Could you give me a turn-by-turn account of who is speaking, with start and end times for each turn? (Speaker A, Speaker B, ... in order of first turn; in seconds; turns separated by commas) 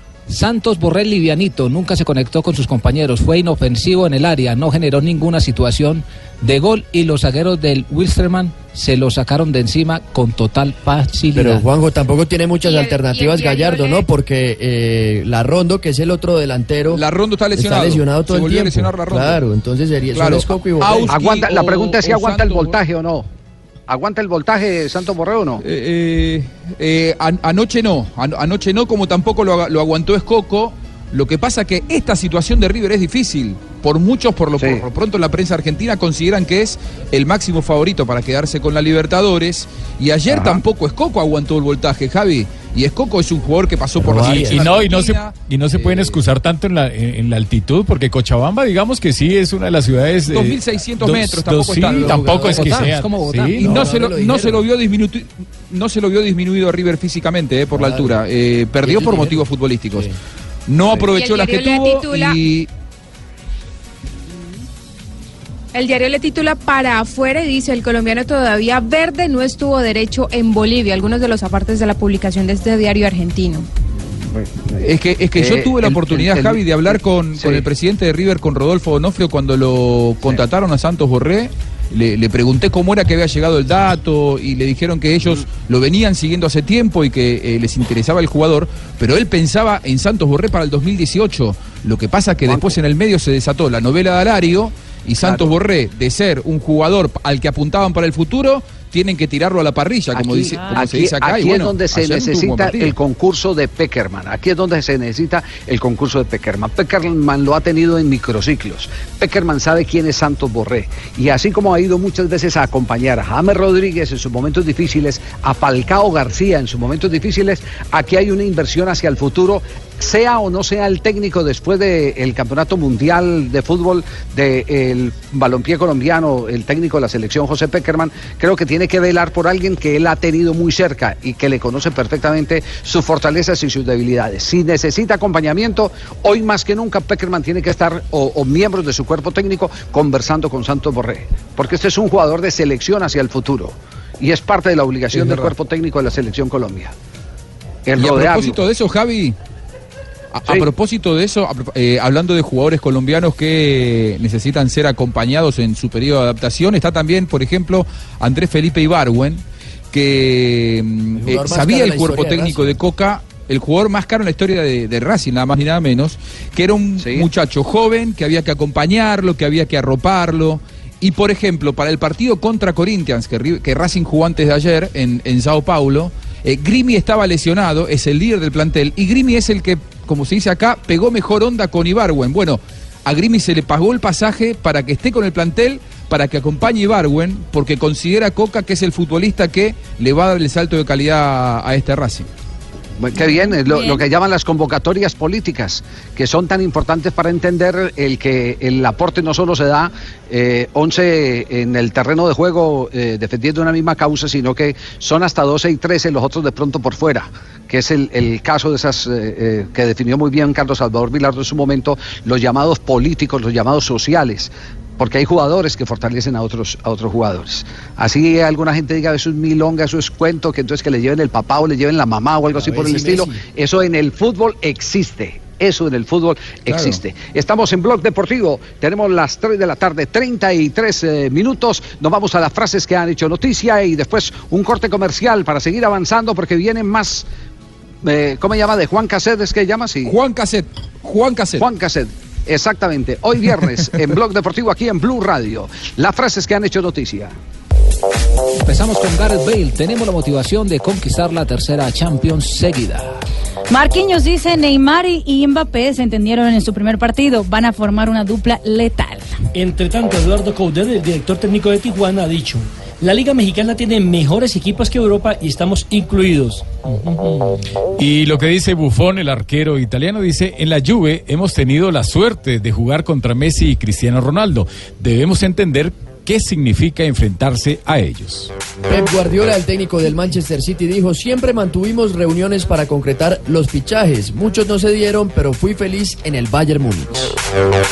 Speaker A: 0.3-11.6, Speaker B: 11.3-17.0, Speaker C: 12.6-14.1, Speaker D: 16.9-19.4, Speaker B: 17.5-21.1, Speaker D: 20.1-22.8, Speaker E: 21.1-23.3, Speaker E: 23.9-25.6, Speaker D: 25.6-45.3, Speaker E: 34.6-34.8, Speaker E: 40.3-40.6, Speaker B: 44.0-44.4, Speaker F: 44.1-53.7, Speaker B: 45.8-46.0, Speaker D: 50.3-52.1, Speaker A: 51.8-53.8, Speaker B: 51.9-52.9, Speaker B: 53.6-54.6, Speaker D: 53.6-60.1, Speaker B: 57.7-58.2, Speaker B: 58.8-60.0, Speaker D: 60.7-62.7, Speaker C: 61.0-62.4, Speaker C: 65.7-73.7, Speaker E: 74.2-77.7, Speaker D: 74.8-103.0, Speaker E: 92.4-92.8, Speaker E: 95.2-95.5, Speaker E: 100.1-146.9, Speaker G: 100.5-100.8, Speaker D: 145.2-145.5, Speaker E: 147.8-148.6, Speaker D: 148.0-149.3, Speaker D: 150.3-192.3, Speaker B: 161.1-162.8, Speaker E: 167.0-167.3, Speaker E: 193.0-237.2, Speaker G: 193.2-194.0, Speaker B: 222.6-223.4, Speaker D: 226.7-227.0, Speaker E: 238.0-240.2, Speaker D: 240.0-241.7, Speaker E: 241.6-247.3, Speaker A: 248.6-253.1, Speaker G: 253.7-259.3, Speaker H: 259.6-267.4, Speaker F: 267.9-278.5, Speaker B: 278.9-287.3